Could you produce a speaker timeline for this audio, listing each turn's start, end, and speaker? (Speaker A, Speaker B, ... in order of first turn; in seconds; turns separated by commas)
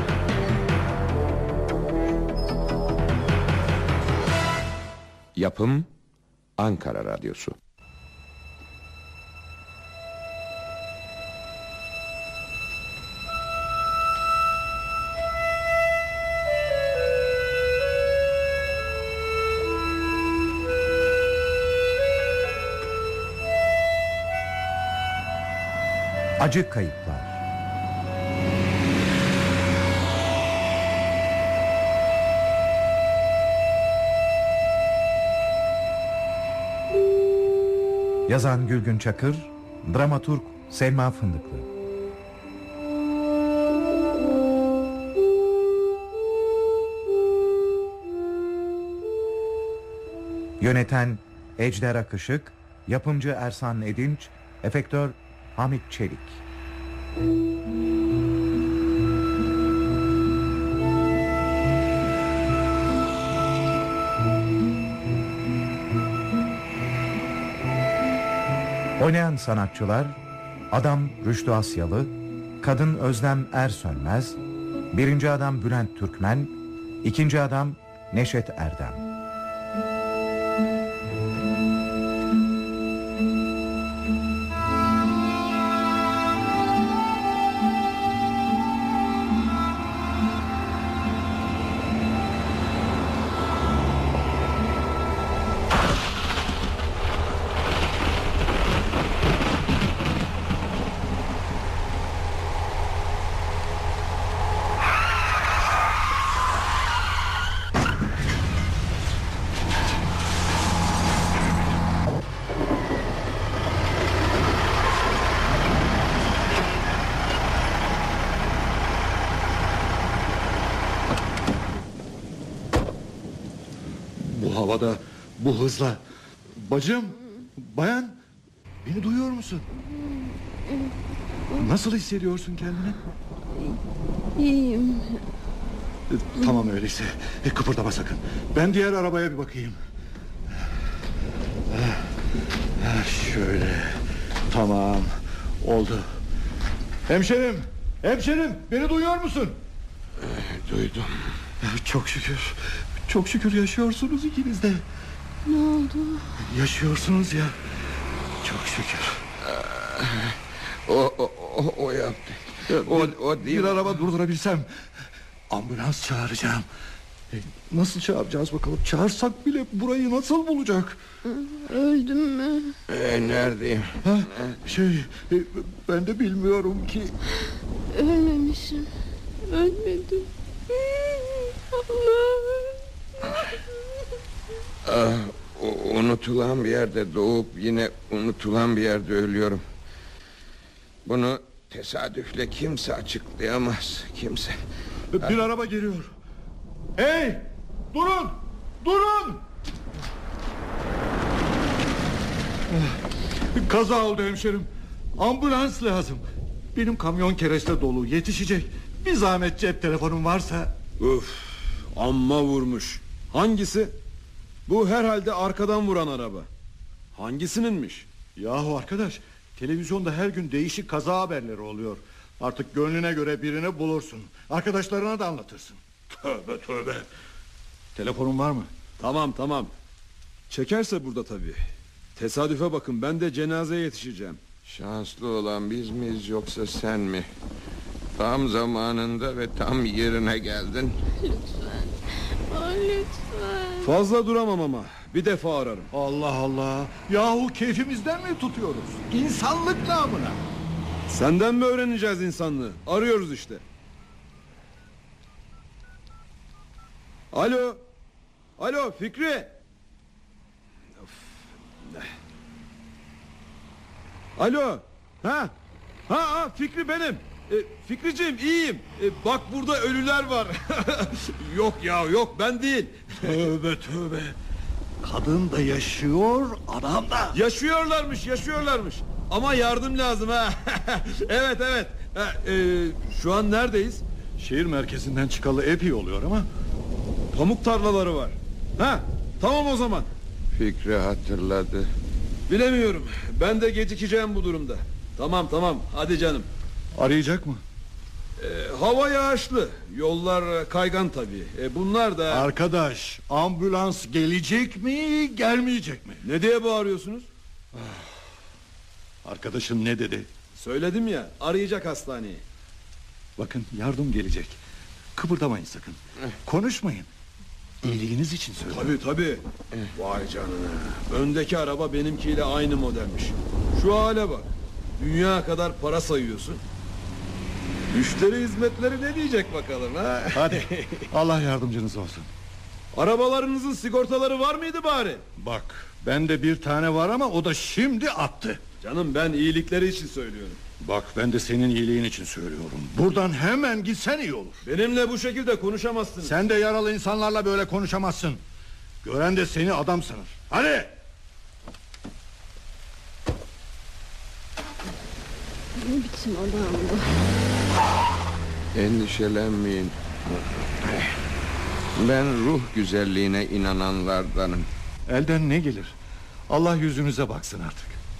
Speaker A: 5.4-5.9, Speaker A: 6.6-7.5, Speaker B: 26.4-27.4, Speaker B: 38.3-41.7, Speaker B: 50.6-56.4, Speaker B: 69.0-70.2, Speaker B: 70.7-74.4, Speaker B: 74.9-79.0, Speaker C: 124.2-126.0, Speaker C: 126.5-128.2, Speaker C: 128.8-129.7, Speaker D: 130.2-130.9, Speaker C: 131.6-133.0, Speaker D: 133.5-133.8, Speaker D: 134.4-135.2, Speaker C: 136.1-139.8, Speaker C: 141.7-142.1, Speaker C: 142.8-146.1, Speaker C: 147.1-149.6, Speaker A: 150.2-151.4, Speaker C: 151.6-154.8, Speaker D: 155.5-156.3, Speaker C: 156.4-157.6, Speaker C: 158.4-159.2, Speaker A: 159.4-163.9, Speaker C: 162.7-164.7, Speaker C: 165.5-166.7, Speaker C: 167.3-171.0, Speaker D: 171.2-172.8, Speaker A: 172.9-174.6, Speaker C: 174.0-177.2, Speaker D: 177.9-178.9, Speaker D: 179.4-183.5, Speaker A: 184.8-189.6, Speaker A: 191.1-194.6, Speaker C: 195.1-196.1, Speaker C: 197.0-199.5, Speaker C: 202.7-203.0, Speaker C: 203.5-206.2, Speaker C: 206.7-210.8, Speaker E: 211.0-213.9, Speaker E: 214.7-216.5, Speaker E: 217.2-218.1, Speaker C: 218.4-227.1, Speaker C: 228.0-228.7, Speaker E: 229.0-229.7, Speaker E: 230.5-231.6, Speaker E: 232.2-234.4, Speaker A: 234.7-237.3, Speaker A: 238.2-241.0, Speaker D: 241.2-243.9, Speaker E: 243.8-245.9, Speaker C: 245.9-250.4, Speaker E: 251.1-253.6, Speaker E: 257.3-257.8, Speaker E: 258.6-259.5, Speaker E: 261.8-262.1, Speaker E: 264.4-265.5, Speaker E: 266.1-273.2, Speaker C: 273.2-274.4, Speaker C: 275.0-277.4, Speaker E: 277.3-284.0, Speaker C: 284.4-286.5, Speaker E: 287.3-290.1, Speaker A: 290.5-291.9, Speaker E: 292.5-296.5, Speaker C: 296.9-297.6, Speaker E: 298.4-302.5, Speaker C: 302.3-306.2, Speaker E: 306.2-307.3, Speaker C: 307.7-308.1, Speaker C: 309.2-310.3, Speaker E: 310.6-312.4, Speaker C: 313.4-314.6, Speaker C: 315.1-317.1, Speaker C: 317.8-319.0, Speaker E: 318.7-319.4, Speaker E: 319.9-326.6, Speaker E: 327.9-331.1, Speaker C: 330.3-332.3, Speaker E: 332.9-335.2, Speaker C: 335.4-338.6, Speaker E: 338.8-340.6, Speaker C: 340.8-344.6, Speaker E: 344.6-346.4, Speaker C: 346.2-348.4, Speaker C: 349.0-350.9, Speaker D: 355.8-357.2, Speaker A: 358.7-360.0, Speaker A: 360.8-361.1, Speaker A: 362.0-364.7, Speaker C: 365.1-365.9, Speaker C: 366.5-368.0